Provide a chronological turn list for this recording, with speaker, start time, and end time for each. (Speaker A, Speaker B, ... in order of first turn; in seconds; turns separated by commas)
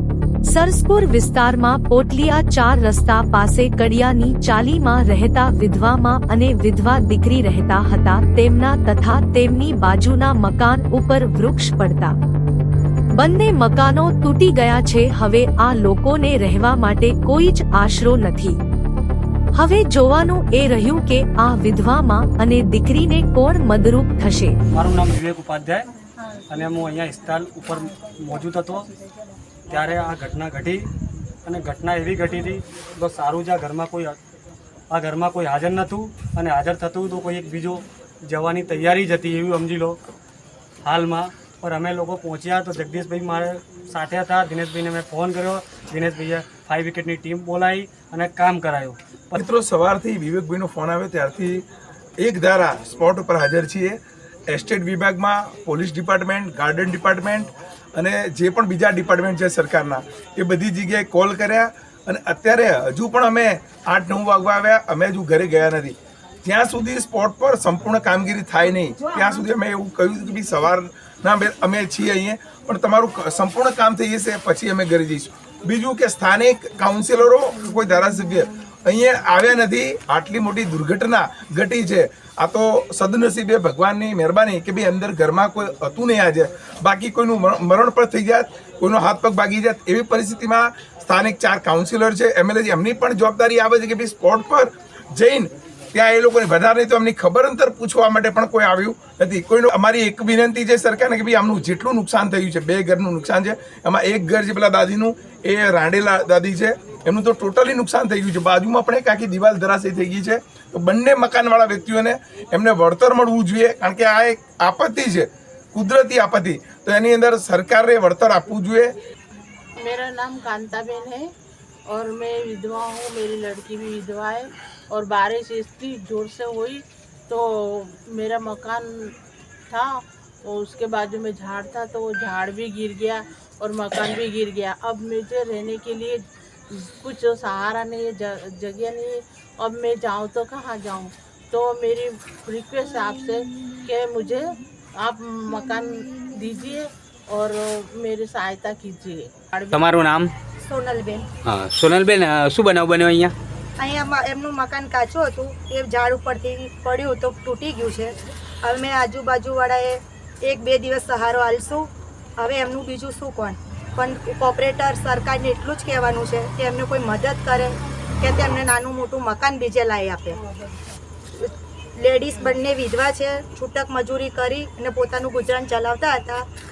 Speaker A: 0.5-12.2, Speaker A: 13.2-18.6, Speaker A: 19.6-24.6, Speaker B: 24.7-25.9, Speaker B: 26.5-28.9, Speaker B: 29.7-30.9, Speaker B: 31.5-34.2, Speaker B: 34.9-40.0, Speaker B: 40.8-49.4, Speaker C: 49.4-51.7, Speaker C: 52.2-119.0, Speaker D: 119.8-121.3, Speaker D: 121.9-128.9, Speaker D: 129.7-149.8, Speaker E: 149.7-150.3, Speaker F: 150.6-151.3, Speaker E: 151.5-153.3, Speaker F: 153.8-170.4, Speaker F: 171.3-176.4